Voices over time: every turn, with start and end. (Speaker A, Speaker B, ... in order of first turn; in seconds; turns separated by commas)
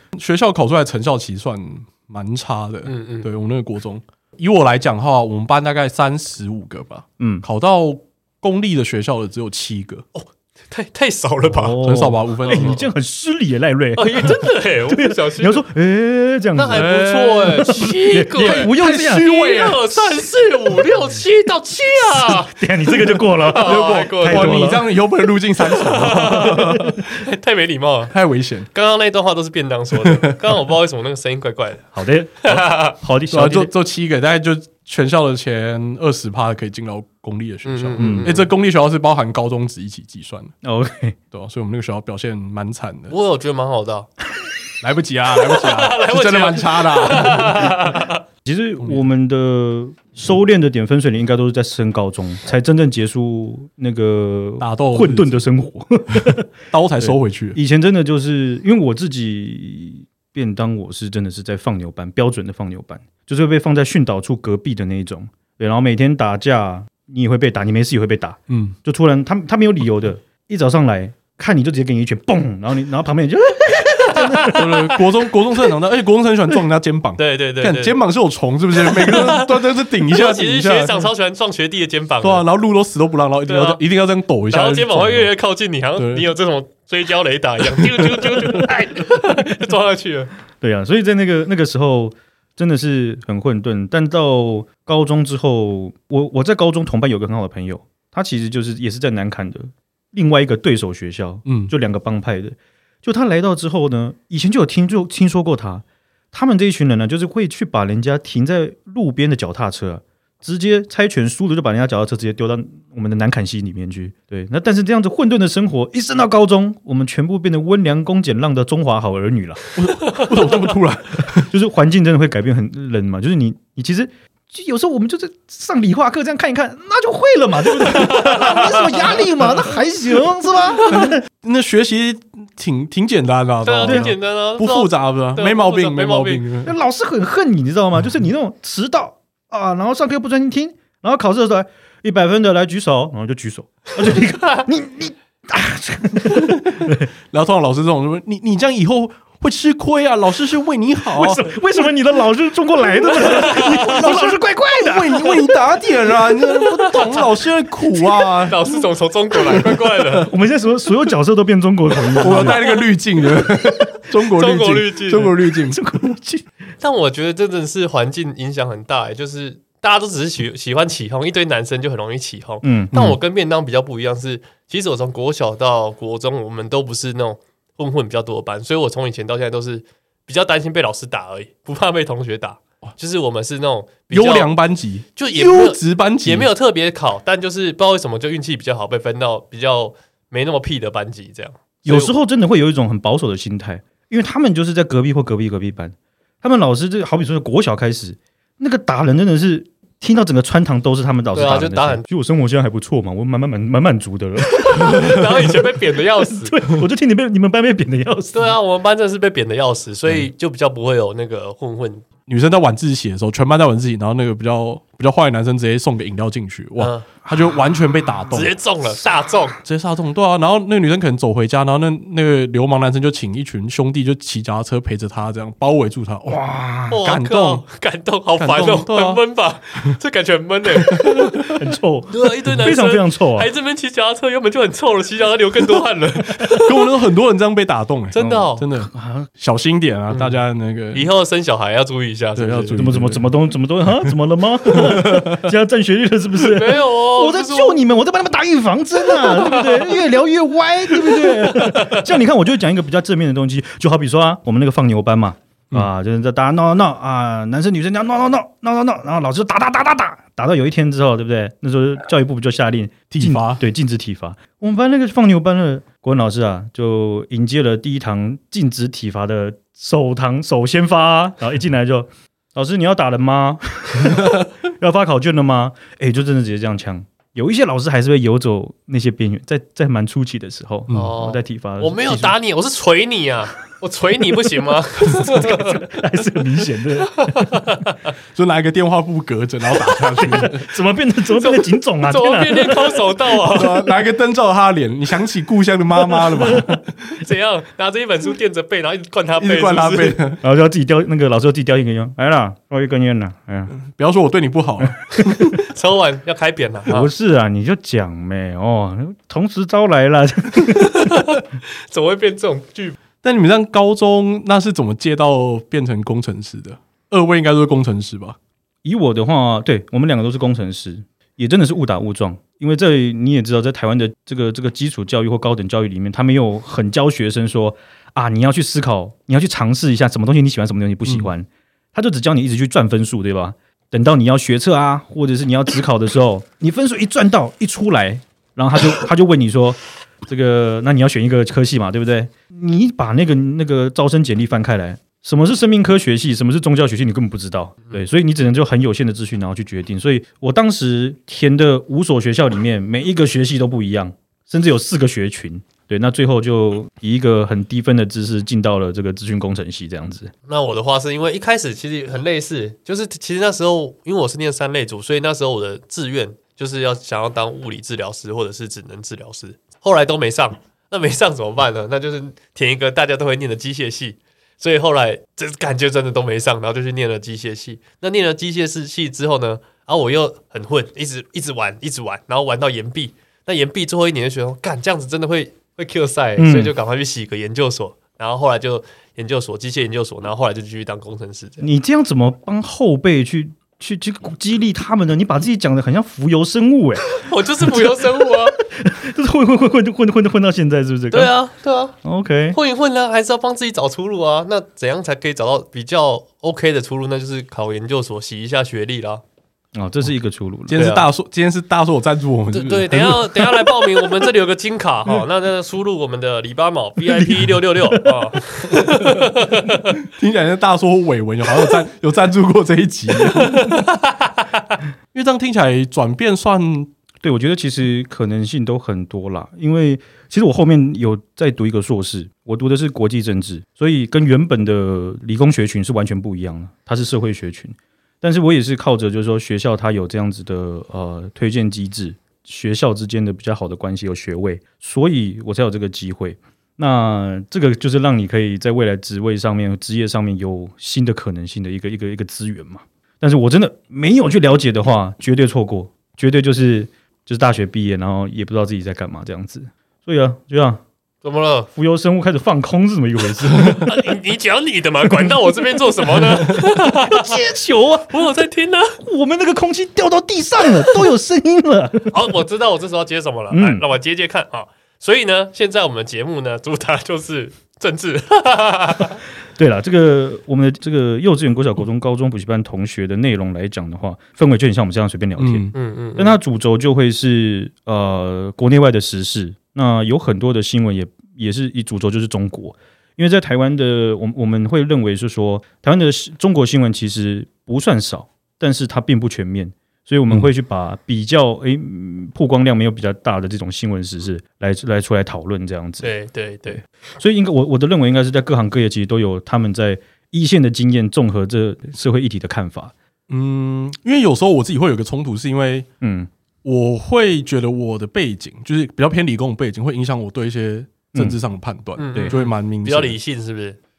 Speaker A: 0.1-10.0, Speaker B: 2.9-3.3, Speaker C: 7.2-7.5, Speaker B: 10.2-11.8, Speaker C: 11.5-16.9, Speaker A: 11.8-12.8, Speaker B: 12.4-12.9, Speaker B: 14.0-15.6, Speaker B: 16.6-24.8, Speaker A: 16.7-19.8, Speaker C: 17.6-20.8, Speaker C: 22.0-24.9, Speaker A: 23.6-27.0, Speaker B: 25.6-28.1, Speaker A: 28.1-28.7, Speaker B: 28.7-33.0, Speaker A: 30.0-30.4, Speaker C: 31.9-33.7, Speaker A: 33.3-40.5, Speaker B: 37.7-38.5, Speaker C: 38.0-38.3, Speaker C: 40.6-41.2, Speaker A: 41.3-43.1, Speaker B: 43.1-44.1, Speaker A: 44.8-47.7, Speaker B: 45.4-48.2, Speaker C: 48.5-56.5, Speaker A: 54.6-55.4, Speaker A: 56.7-57.6, Speaker C: 57.0-74.9, Speaker A: 68.5-68.8, Speaker B: 74.1-74.7, Speaker A: 74.5-81.0, Speaker B: 77.2-78.0, Speaker B: 78.8-82.5, Speaker A: 82.2-85.3, Speaker B: 83.5-83.8, Speaker B: 84.5-90.3, Speaker A: 86.0-86.3, Speaker C: 90.6-119.6, Speaker A: 101.5-101.7, Speaker A: 119.8-121.5, Speaker C: 121.4-131.2, Speaker B: 127.9-129.3, Speaker A: 130.9-136.7, Speaker B: 133.7-136.4, Speaker C: 133.8-134.1, Speaker C: 136.7-147.1, Speaker A: 146.3-151.5, Speaker C: 151.1-155.5, Speaker B: 153.3-154.0, Speaker A: 153.7-158.8, Speaker B: 158.4-160.3, Speaker A: 159.5-160.2, Speaker C: 160.3-162.6, Speaker A: 162.2-165.8, Speaker B: 162.4-162.7, Speaker B: 164.3-165.3, Speaker C: 165.7-166.5, Speaker B: 166.8-184.5, Speaker C: 172.6-173.2, Speaker A: 184.1-186.5, Speaker B: 185.2-192.2, Speaker C: 191.8-205.6, Speaker B: 201.3-202.0, Speaker B: 204.5-206.7, Speaker C: 206.3-208.6, Speaker B: 208.3-212.1, Speaker A: 212.3-218.6, Speaker B: 216.8-217.1, Speaker B: 218.3-219.6, Speaker A: 219.6-227.6, Speaker C: 226.3-227.0, Speaker B: 226.9-231.6, Speaker A: 228.4-229.2, Speaker A: 230.8-231.6, Speaker C: 231.6-233.5, Speaker B: 232.1-236.8, Speaker A: 235.7-241.1, Speaker B: 238.1-238.7, Speaker C: 238.2-239.3, Speaker B: 240.1-240.4, Speaker B: 240.9-242.8, Speaker A: 242.4-243.3, Speaker C: 242.8-282.4, Speaker A: 244.7-245.4, Speaker B: 246.4-247.8, Speaker B: 249.1-250.0, Speaker B: 250.9-252.0, Speaker A: 263.1-263.6, Speaker B: 280.9-285.8, Speaker C: 285.1-287.7, Speaker B: 287.2-287.9, Speaker A: 288.4-290.6, Speaker C: 290.2-293.2, Speaker B: 291.4-293.9, Speaker A: 293.5-296.8, Speaker C: 296.1-296.8, Speaker B: 297.2-300.2, Speaker A: 299.4-300.4, Speaker C: 300.4-303.7, Speaker A: 303.7-305.4, Speaker C: 305.1-305.4, Speaker B: 305.6-307.1, Speaker C: 306.9-311.2, Speaker B: 310.9-313.0, Speaker A: 313.2-318.4, Speaker C: 318.9-360.3, Speaker B: 360.5-391.6, Speaker C: 386.4-386.7, Speaker C: 391.6-401.3, Speaker B: 397.1-398.6, Speaker B: 401.1-402.0, Speaker C: 402.0-402.6, Speaker B: 402.5-409.2, Speaker C: 409.8-410.8, Speaker A: 410.7-413.7, Speaker B: 410.7-411.1, Speaker B: 412.5-420.0, Speaker C: 417.2-418.4, Speaker A: 418.8-419.2, Speaker A: 420.0-423.8, Speaker B: 423.4-424.3, Speaker A: 425.1-426.9, Speaker C: 427.2-460.8, Speaker B: 461.2-461.7, Speaker C: 461.7-464.0, Speaker B: 463.6-467.4, Speaker C: 466.3-468.3, Speaker B: 468.1-469.0, Speaker C: 469.0-472.4, Speaker B: 472.1-479.2, Speaker C: 473.5-473.9, Speaker C: 479.6-506.1, Speaker A: 485.4-485.7, Speaker B: 485.7-486.4, Speaker B: 506.0-506.8, Speaker C: 506.7-512.9, Speaker A: 513.3-515.9, Speaker C: 516.0-516.3, Speaker A: 516.6-523.2, Speaker B: 522.0-523.8